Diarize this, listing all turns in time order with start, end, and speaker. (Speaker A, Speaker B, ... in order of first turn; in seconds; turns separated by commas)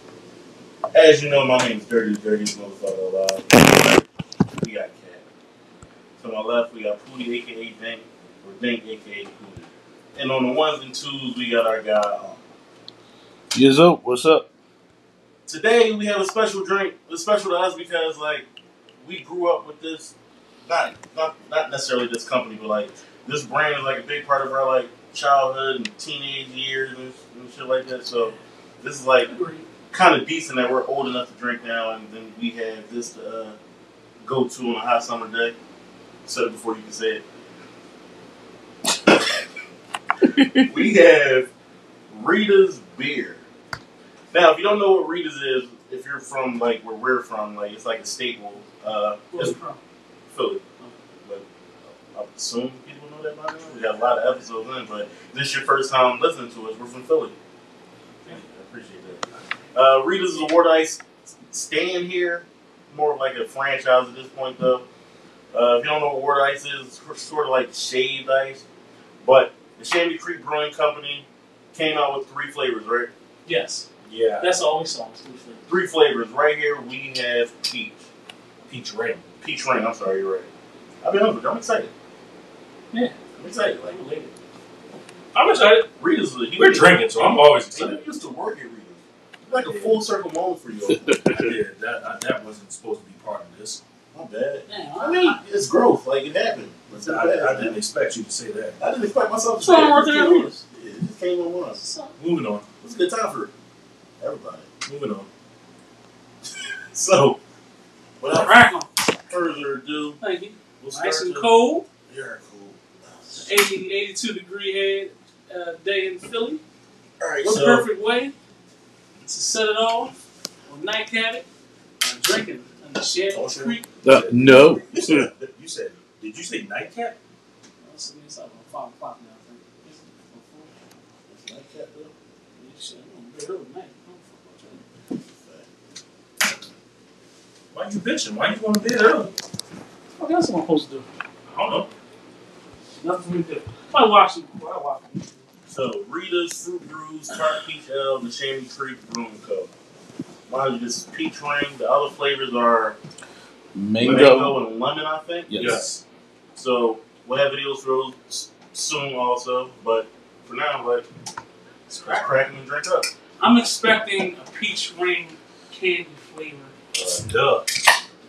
Speaker A: 0.9-5.2, Speaker A: 6.2-12.4, Speaker B: 13.5-14.5, Speaker A: 15.5-18.4, Speaker A: 19.0-20.1, Speaker A: 20.6-29.3, Speaker C: 29.2-29.7, Speaker A: 29.9-33.6, Speaker A: 34.2-35.5, Speaker A: 36.2-37.2, Speaker B: 40.4-40.6, Speaker A: 40.6-41.5, Speaker A: 42.1-43.4, Speaker A: 44.3-49.6, Speaker C: 49.3-49.8, Speaker A: 50.3-50.6, Speaker A: 52.1-57.4, Speaker A: 58.2-64.8, Speaker A: 65.5-68.6, Speaker A: 69.2-73.1, Speaker C: 73.5-73.9, Speaker D: 74.0-74.5, Speaker C: 74.4-75.7, Speaker A: 75.7-78.1, Speaker D: 78.7-79.2, Speaker A: 79.4-80.5, Speaker A: 81.0-81.9, Speaker C: 82.9-83.2, Speaker A: 83.4-84.0, Speaker C: 83.8-84.3, Speaker D: 85.3-85.8, Speaker A: 85.7-91.3, Speaker D: 86.5-88.0, Speaker D: 89.6-90.0, Speaker D: 91.3-93.8, Speaker A: 94.1-97.8, Speaker C: 94.7-95.4, Speaker D: 96.9-98.8, Speaker A: 98.8-101.8, Speaker C: 99.6-100.6, Speaker C: 101.8-102.2, Speaker D: 102.2-102.6, Speaker A: 102.8-103.5, Speaker A: 104.2-104.7, Speaker D: 104.8-105.3, Speaker A: 106.9-107.4, Speaker A: 108.2-108.6, Speaker C: 108.3-108.9, Speaker A: 109.2-110.2, Speaker C: 110.2-111.8, Speaker A: 110.8-111.5, Speaker A: 112.1-113.6, Speaker C: 113.4-116.6, Speaker A: 117.2-117.9, Speaker C: 117.4-118.3, Speaker C: 119.2-120.1, Speaker C: 120.7-121.5, Speaker C: 122.0-123.9, Speaker A: 123.3-123.8, Speaker B: 124.0-125.3, Speaker D: 124.0-127.2, Speaker C: 127.8-130.7, Speaker A: 131.3-132.1, Speaker C: 132.6-134.8, Speaker A: 135.4-135.7, Speaker D: 137.7-139.3, Speaker C: 140.1-141.1, Speaker D: 141.5-141.9, Speaker C: 143.0-145.4, Speaker A: 145.7-149.7, Speaker A: 150.5-153.0, Speaker B: 153.7-154.6, Speaker A: 154.0-155.8, Speaker B: 155.5-155.8, Speaker D: 155.6-156.0, Speaker A: 156.5-161.1, Speaker A: 161.9-163.1, Speaker C: 162.0-162.3, Speaker C: 163.4-166.7, Speaker A: 166.9-167.2, Speaker D: 167.1-167.7